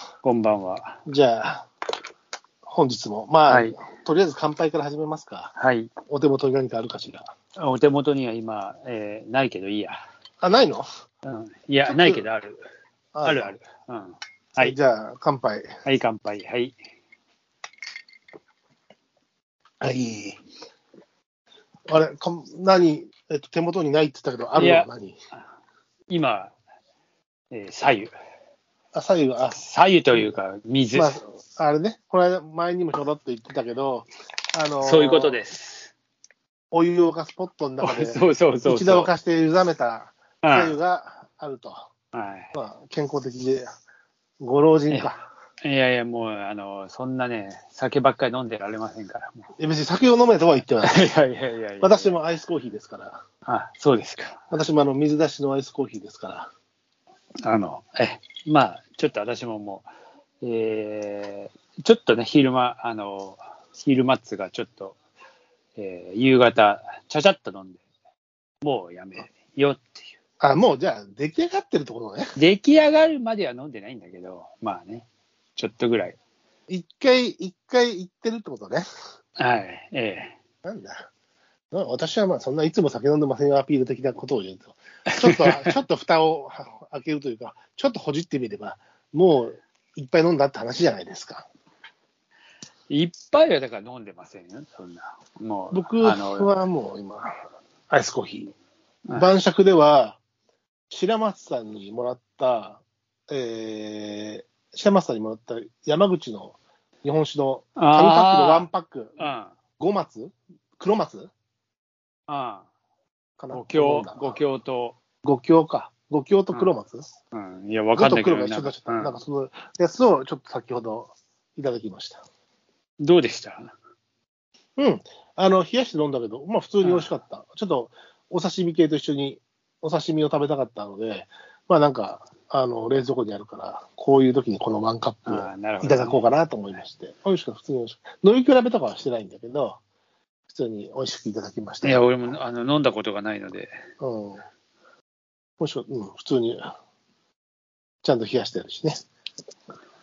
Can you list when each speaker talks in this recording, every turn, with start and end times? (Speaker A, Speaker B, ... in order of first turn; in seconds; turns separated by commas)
Speaker A: 0.2-1.0, Speaker B: 1.1-1.6, Speaker B: 2.6-5.5, Speaker A: 3.5-3.8, Speaker A: 5.5-5.9, Speaker B: 6.1-7.3, Speaker A: 7.6-10.0, Speaker B: 10.4-10.8, Speaker A: 11.2-12.6, Speaker B: 11.8-12.2, Speaker B: 13.1-13.5, Speaker A: 13.2-14.8, Speaker B: 14.6-15.7, Speaker A: 15.8-16.8, Speaker B: 19.8-20.4, Speaker B: 21.9-25.1, Speaker A: 24.6-24.9, Speaker A: 26.1-26.5, Speaker A: 27.5-28.1, Speaker B: 28.9-29.6, Speaker A: 29.5-31.1, Speaker B: 30.9-35.4, Speaker A: 34.8-35.9, Speaker B: 36.7-41.9, Speaker A: 37.8-39.1, Speaker A: 40.4-40.8, Speaker A: 42.1-42.5, Speaker B: 42.5-43.7, Speaker B: 44.4-45.2, Speaker A: 45.6-49.4, Speaker B: 49.6-51.1, Speaker A: 50.8-52.1, Speaker B: 51.8-53.2, Speaker A: 53.5-54.4, Speaker B: 54.5-56.5, Speaker A: 57.4-59.9, Speaker A: 60.4-65.0, Speaker A: 65.8-67.8, Speaker A: 68.6-70.1, Speaker B: 70.4-72.3, Speaker A: 72.3-76.2, Speaker B: 76.7-78.8, Speaker A: 79.4-80.3, Speaker B: 80.6-81.1, Speaker B: 81.7-91.5, Speaker A: 85.1-85.7, Speaker A: 92.9-96.5, Speaker B: 95.7-97.3, Speaker B: 97.9-98.5, Speaker B: 99.1-100.2, Speaker B: 100.9-109.2, Speaker A: 107.8-109.5, Speaker B: 109.8-111.3, Speaker A: 112.3-112.7, Speaker B: 113.4-114.4, Speaker A: 113.5-115.0, Speaker B: 115.2-117.0, Speaker A: 117.3-119.2, Speaker B: 117.9-122.2, Speaker A: 123.0-123.7, Speaker B: 124.8-139.8, Speaker A: 126.8-127.1, Speaker A: 135.2-136.2, Speaker B: 140.5-142.2, Speaker A: 141.8-143.7, Speaker B: 144.0-144.4, Speaker B: 145.6-146.7, Speaker B: 148.0-149.0